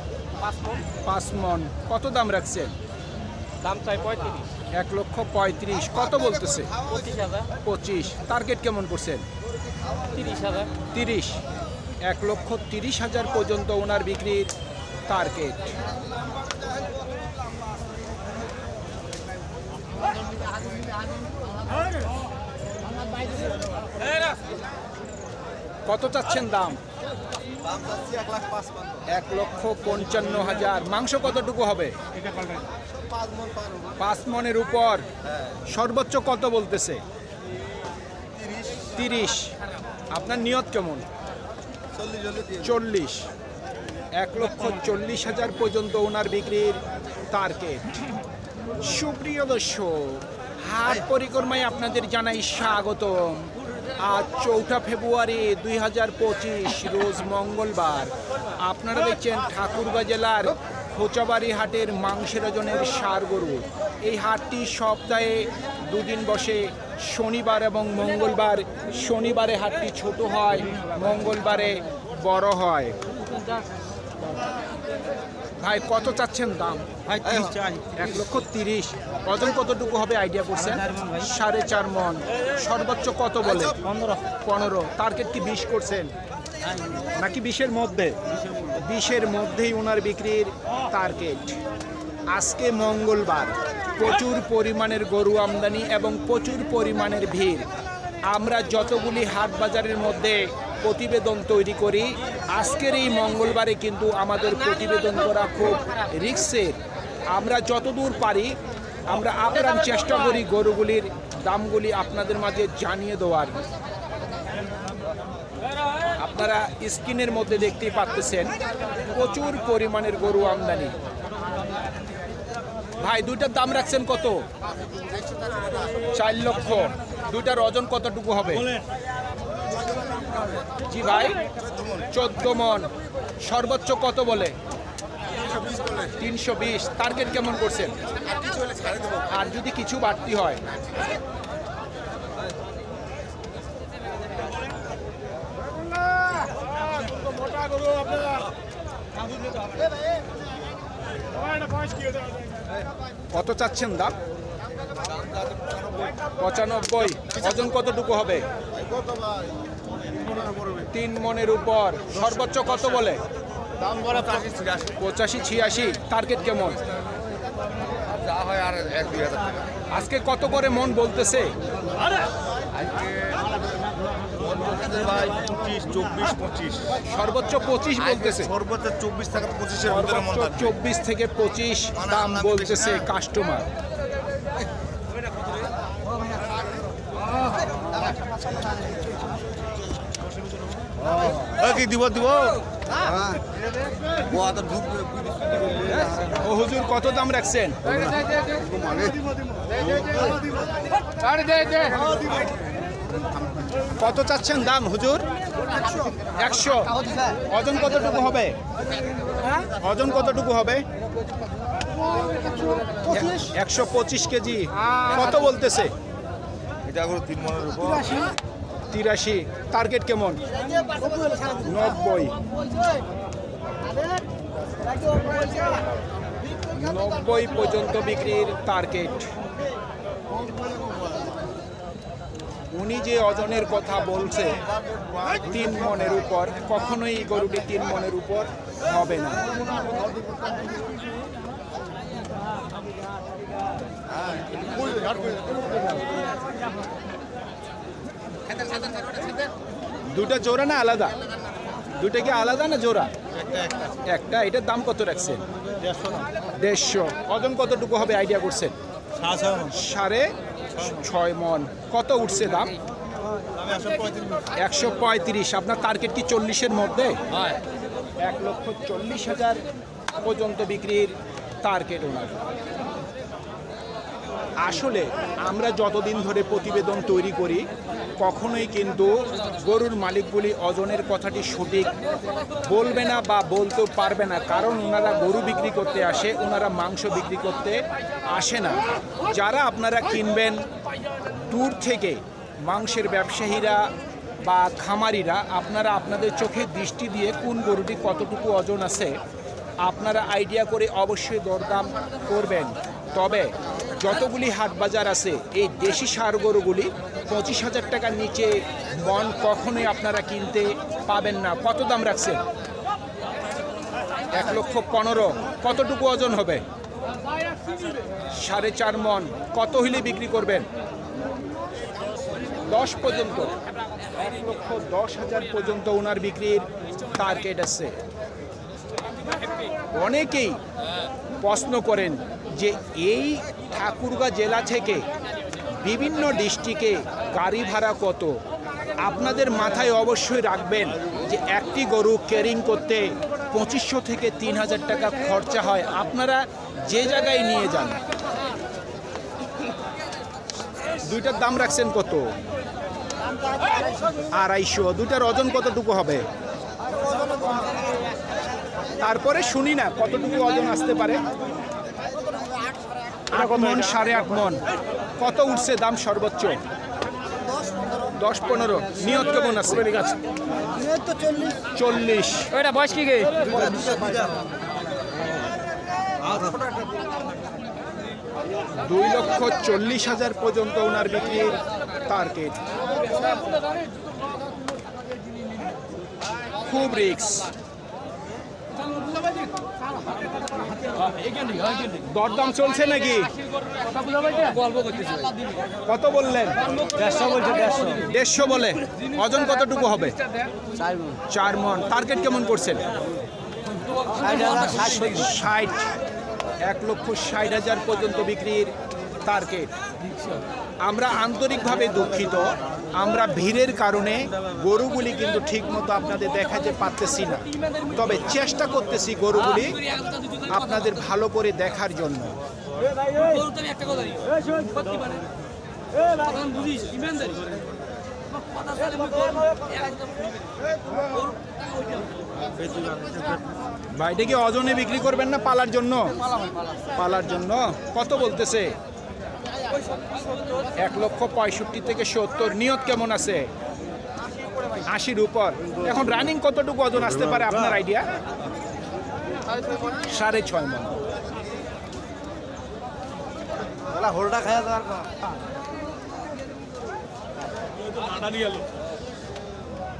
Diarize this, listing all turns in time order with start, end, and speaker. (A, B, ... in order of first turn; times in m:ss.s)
0:00.4-0:00.8 A
0:01.0-0:02.7 B
0:03.6-0:04.5 A
0:04.7-0:06.8 B
0:06.8-0:07.5 A
0:07.6-0:09.2 B
0:10.1-0:10.7 A
0:10.9-0:11.4 B
0:12.0-0:14.5 B
0:15.1-0:15.8 B
0:25.8-0:26.8 B
0:27.7-0:28.9 C
0:29.0-0:32.0 B
0:34.0-0:35.0 B
0:35.7-0:37.0 B
0:38.9-0:39.5 B
0:40.1-0:41.0 B
0:42.0-0:42.5 C
0:42.6-0:43.3 B
0:44.2-0:48.0 B
0:48.8-1:12.9 B
1:15.6-1:16.9 B
1:17.1-1:18.0 C
1:18.0-1:23.8 B
1:20.6-1:21.2 A
1:23.8-1:24.2 C
1:24.4-1:26.1 B
1:27.1-1:28.2 B
1:28.7-1:31.6 B
1:32.3-1:37.7 B
1:38.3-1:46.8 B
1:47.3-1:48.6 B
1:49.1-1:53.6 B
1:56.2-1:58.6 B
1:59.1-2:01.0 B
2:03.0-2:04.5 B
2:06.1-2:08.7 B
2:10.9-2:11.4 B
2:12.0-2:12.9 B
2:13.4-2:14.6 B
2:16.1-2:18.0 B
2:19.2-2:20.6 B
2:33.3-2:34.1 B
2:36.4-2:38.4 B
2:38.9-2:39.5 C
2:40.2-2:40.8 C
2:40.9-2:43.2 B
2:43.8-2:44.9 C
2:44.9-2:46.8 B
2:48.2-2:49.6 C
2:49.9-2:51.5 B
2:53.0-2:53.4 C
2:54.5-2:57.0 C
2:57.0-2:58.5 B
2:58.1-3:00.5 C
2:59.8-3:03.7 B
3:11.2-3:12.6 C
3:14.2-3:16.2 C
3:16.3-3:18.2 B
3:18.2-3:19.2 C
3:19.7-3:20.4 C
3:21.4-3:21.9 A
3:24.0-3:25.3 B
3:26.2-3:28.6 B
3:29.7-3:30.8 B
3:33.0-3:35.9 B
3:36.8-3:38.3 C
3:38.9-3:40.4 B
3:41.0-3:41.5 A
3:41.6-3:42.4 B
3:46.7-3:49.3 B
3:52.7-3:54.6 B
3:55.3-3:59.5 B
4:04.7-4:05.4 C
4:10.1-4:11.2 B
4:12.0-4:13.1 B
4:13.4-4:13.9 C
4:14.0-4:15.4 B
4:15.9-4:16.2 C
4:16.6-4:18.8 B
4:19.2-4:19.7 C
4:19.6-4:22.7 B
4:23.6-4:24.4 C
4:24.6-4:27.2 B
4:28.2-4:29.6 B
4:30.2-4:32.4 B
4:34.6-4:41.9 B
4:42.6-4:50.6 B
4:51.2-4:53.9 B
4:54.4-4:59.2 B
4:59.8-5:12.4 B
5:14.3-5:16.6 B
5:18.3-5:20.7 B
5:22.6-5:23.6 B
5:24.1-5:28.0 B
5:29.9-5:30.6 B
5:31.4-5:35.0 B
5:35.8-5:38.4 B
5:39.0-5:48.0 B
5:51.0-5:52.3 B
5:54.3-5:56.2 B
5:59.0-6:01.2 B
6:03.3-6:04.6 B
6:05.2-6:06.6 B
6:08.1-6:10.1 B
6:10.8-6:11.5 C
6:11.1-6:11.4 A
6:11.7-6:12.5 B
6:12.5-6:13.6 A
6:13.4-6:14.2 C
6:16.2-6:16.6 C
6:18.8-6:22.6 B
6:26.6-6:27.5 B
6:31.8-6:33.3 B
6:34.1-6:35.4 A
6:35.9-6:36.6 B
6:36.9-6:38.0 A
6:37.0-6:37.9 C
6:38.0-6:40.3 B
6:41.3-6:42.9 B
6:44.2-6:45.0 A
6:44.3-6:44.7 C
6:44.6-6:45.9 B
6:46.6-6:48.7 B
6:49.2-6:49.7 B
6:50.8-6:59.9 B
7:00.4-7:02.4 B
7:03.1-7:05.2 A
7:06.1-7:07.4 A
7:08.3-7:10.3 A
7:12.6-7:13.4 C
7:13.9-7:16.2 B
7:16.9-7:18.7 B
7:20.8-7:23.5 B
7:24.8-7:28.1 B
7:30.0-7:31.0 B
7:33.9-7:35.0 C